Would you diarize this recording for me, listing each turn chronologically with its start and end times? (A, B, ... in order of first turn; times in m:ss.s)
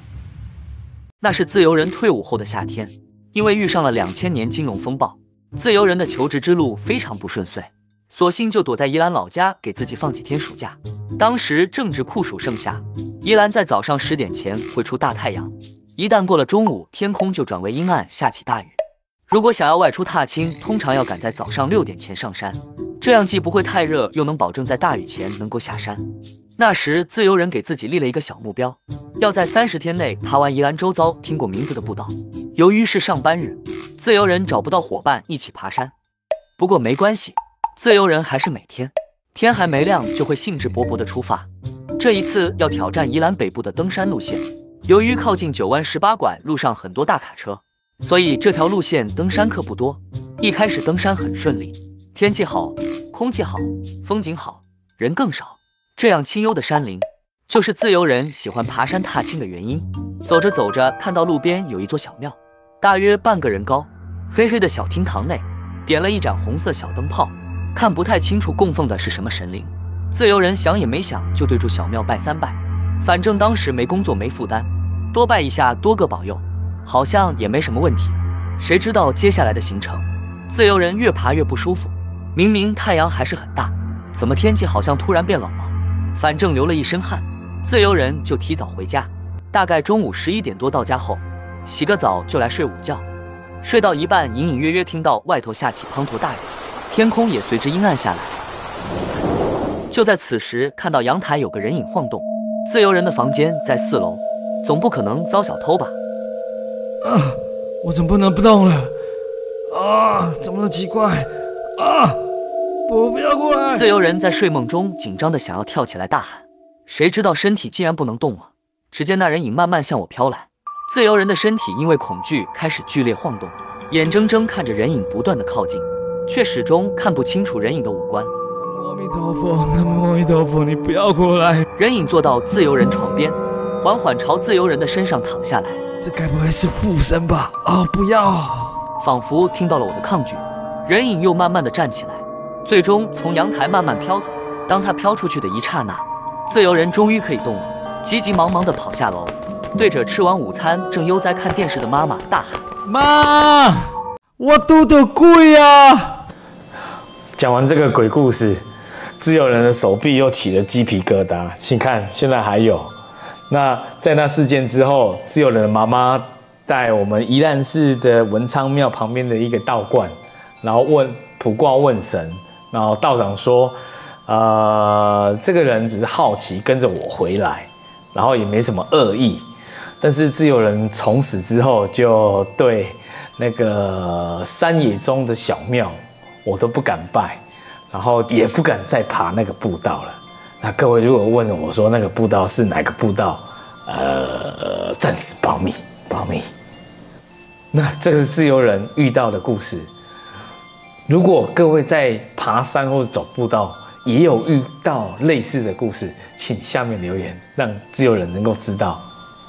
0:01.2-0:18.8 A
0:19.3-0:26.0 A
0:26.6-0:35.9 A
0:36.6-1:33.0 A
1:33.6-1:38.4 A
1:39.9-1:46.0 A
1:47.0-1:48.9 B
1:49.7-1:52.2 B
1:52.9-1:53.9 B
1:53.7-2:08.3 A
2:08.6-2:11.6 B
2:11.7-2:15.8 A
2:16.0-2:18.8 B
2:19.0-2:32.6 A
2:32.8-2:36.2 B
2:37.4-2:38.6 C
2:39.2-2:42.9 C
2:43.5-2:53.8 C
2:54.3-2:59.5 C
3:00.0-3:16.5 C
3:17.7-3:19.9 C
3:21.1-3:29.0 C